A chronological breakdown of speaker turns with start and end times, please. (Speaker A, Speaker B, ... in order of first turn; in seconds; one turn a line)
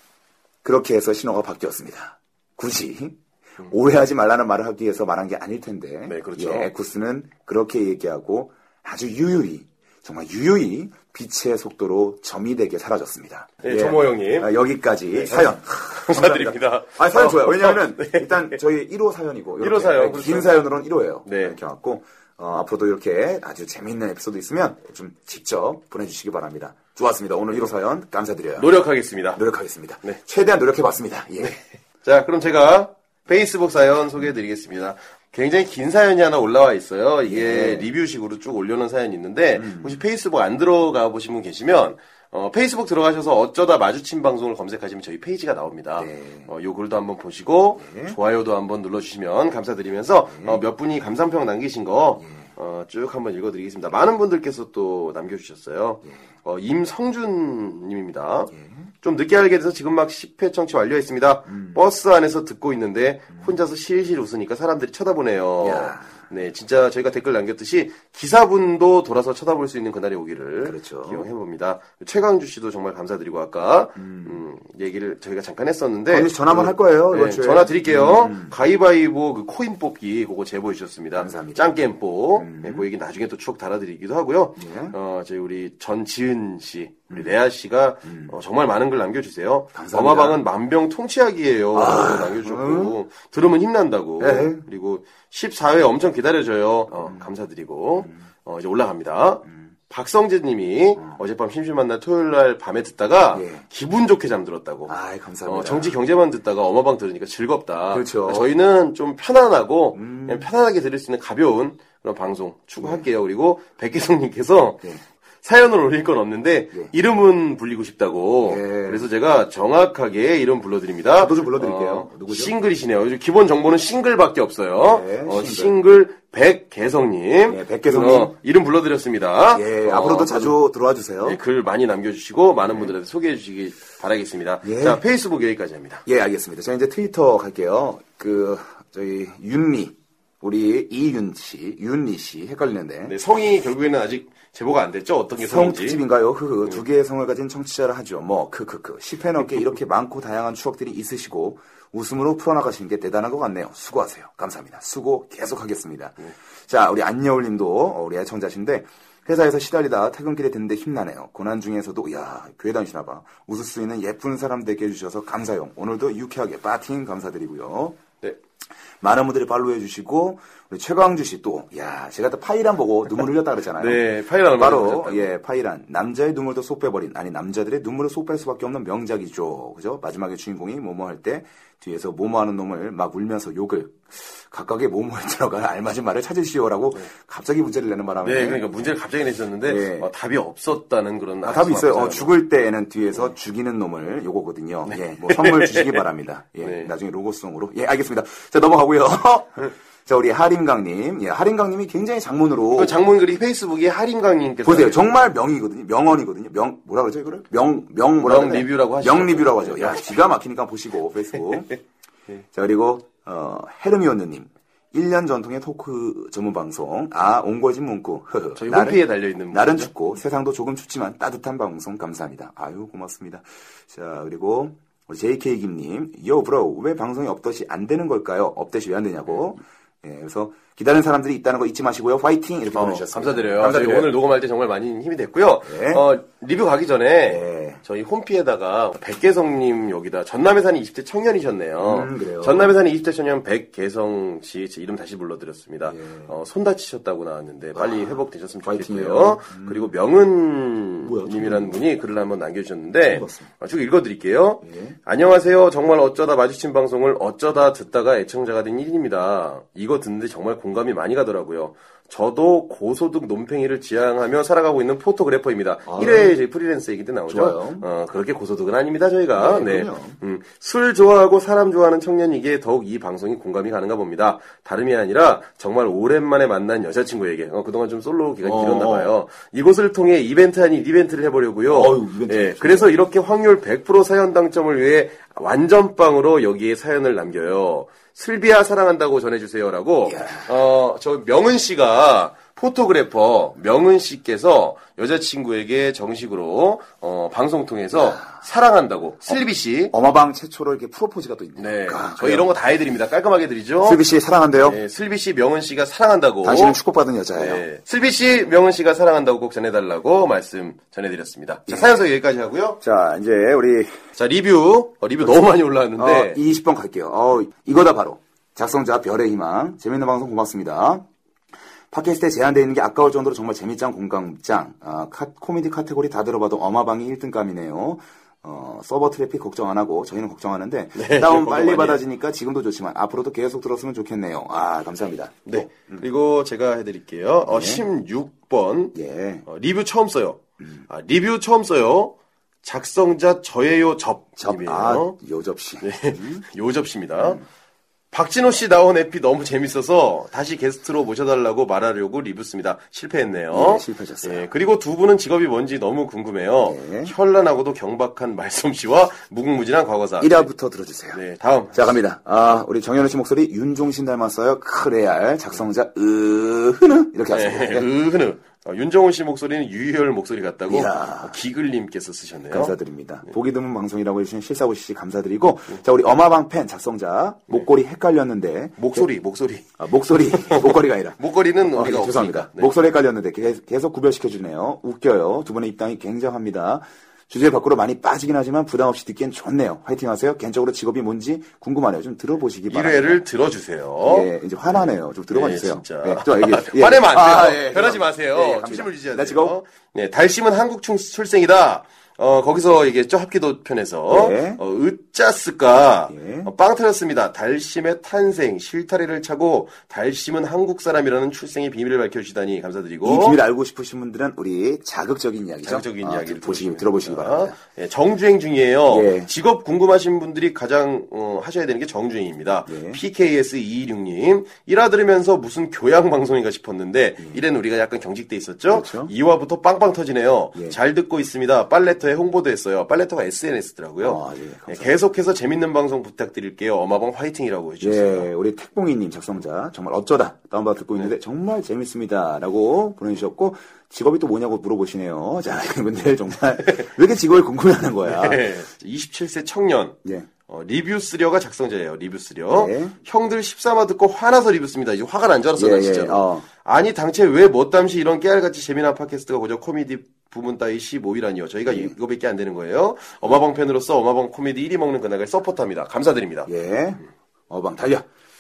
Speaker A: 0.6-28.7
Speaker B: 6.1-6.7
Speaker B: 13.6-14.5
Speaker B: 15.1-18.6
Speaker B: 19.6-20.6
Speaker B: 21.3-21.6
Speaker B: 28.6-29.4
Speaker A: 29.4-31.6
Speaker B: 31.4-58.5
Speaker A: 37.3-37.9
Speaker A: 39.5-40.0
Speaker A: 46.0-46.5
Speaker A: 47.8-48.2
Speaker A: 50.3-50.6
Speaker A: 52.2-52.5
Speaker A: 58.5-58.9
Speaker B: 59.0-114.9
Speaker A: 61.5-61.8
Speaker A: 65.6-66.2
Speaker A: 70.6-71.3
Speaker A: 74.0-74.4
Speaker A: 76.1-78.6
Speaker A: 81.2-81.7
Speaker A: 82.4-82.9
Speaker A: 84.6-85.0
Speaker A: 87.1-87.4
Speaker A: 88.1-88.4
Speaker A: 89.7-90.4
Speaker A: 91.7-93.0
Speaker A: 94.2-94.6
Speaker A: 97.0-97.3
Speaker A: 103.3-103.7
Speaker A: 104.9-106.0
Speaker A: 107.9-108.5
Speaker A: 109.9-110.5
Speaker A: 112.8-113.0
Speaker B: 115.4-130.6
Speaker A: 118.4-119.1
Speaker A: 121.2-122.5
Speaker A: 124.8-125.8
Speaker A: 127.5-128.4
Speaker A: 129.5-131.4
Speaker B: 131.2-136.0
Speaker A: 134.6-135.0
Speaker A: 136.1-143.2
Speaker B: 143.1-146.0
Speaker A: 145.4-168.0
Speaker A: 169.0-188.7
Speaker B: 173.8-175.3
Speaker B: 188.2-192.3
Speaker A: 189.7-190.1
Speaker A: 191.4-203.0
Speaker B: 194.9-196.1
Speaker B: 196.6-196.9
Speaker B: 202.7-205.1
Speaker A: 204.6-211.7
Speaker B: 208.2-210.3
Speaker A: 212.5-234.1
Speaker B: 218.6-219.9
Speaker B: 232.7-299.9
Speaker A: 235.6-236.1
Speaker A: 237.3-237.8
Speaker A: 241.8-242.8
Speaker A: 245.8-246.3
Speaker A: 247.8-249.9
Speaker A: 251.0-251.8
Speaker A: 253.1-253.5
Speaker A: 254.6-255.0
Speaker A: 265.9-266.4
Speaker A: 267.3-267.9
Speaker A: 269.4-270.2
Speaker A: 278.4-279.1
Speaker A: 281.7-283.0
Speaker A: 290.1-290.5
Speaker A: 297.9-298.2
Speaker A: 299.9-302.5
Speaker B: 301.6-304.0
Speaker A: 303.8-304.8
Speaker B: 304.6-306.8
Speaker A: 306.4-307.6
Speaker B: 307.4-312.8
Speaker A: 311.7-312.0
Speaker A: 312.8-314.0
Speaker B: 314.2-316.4
Speaker A: 316.0-321.1
Speaker A: 321.9-336.1
Speaker B: 331.0-332.0
Speaker B: 335.5-338.9
Speaker A: 337.5-337.9
Speaker A: 338.9-339.5
Speaker B: 339.5-345.1
Speaker A: 344.4-346.4
Speaker B: 345.8-347.4
Speaker A: 347.2-347.4
Speaker B: 348.1-360.4
Speaker A: 353.5-354.5
Speaker A: 356.6-357.1
Speaker A: 360.2-361.2
Speaker B: 361.1-361.8
Speaker A: 361.7-367.9
Speaker B: 367.3-372.8
Speaker A: 370.7-371.4
Speaker A: 372.5-379.1
Speaker B: 378.8-379.6
Speaker A: 379.8-393.2
Speaker B: 380.3-382.7
Speaker B: 392.7-413.4
Speaker A: 394.0-399.6
Speaker A: 404.1-404.6
Speaker A: 406.1-406.5
Speaker A: 413.0-417.6
Speaker B: 415.6-438.3
Speaker A: 418.9-419.3
Speaker A: 422.7-423.0
Speaker A: 428.7-429.1
Speaker A: 434.0-435.0
Speaker A: 437.8-448.4
Speaker B: 448.1-466.5
Speaker A: 452.5-453.0
Speaker A: 455.6-456.5
Speaker A: 461.7-461.9
Speaker A: 466.5-468.1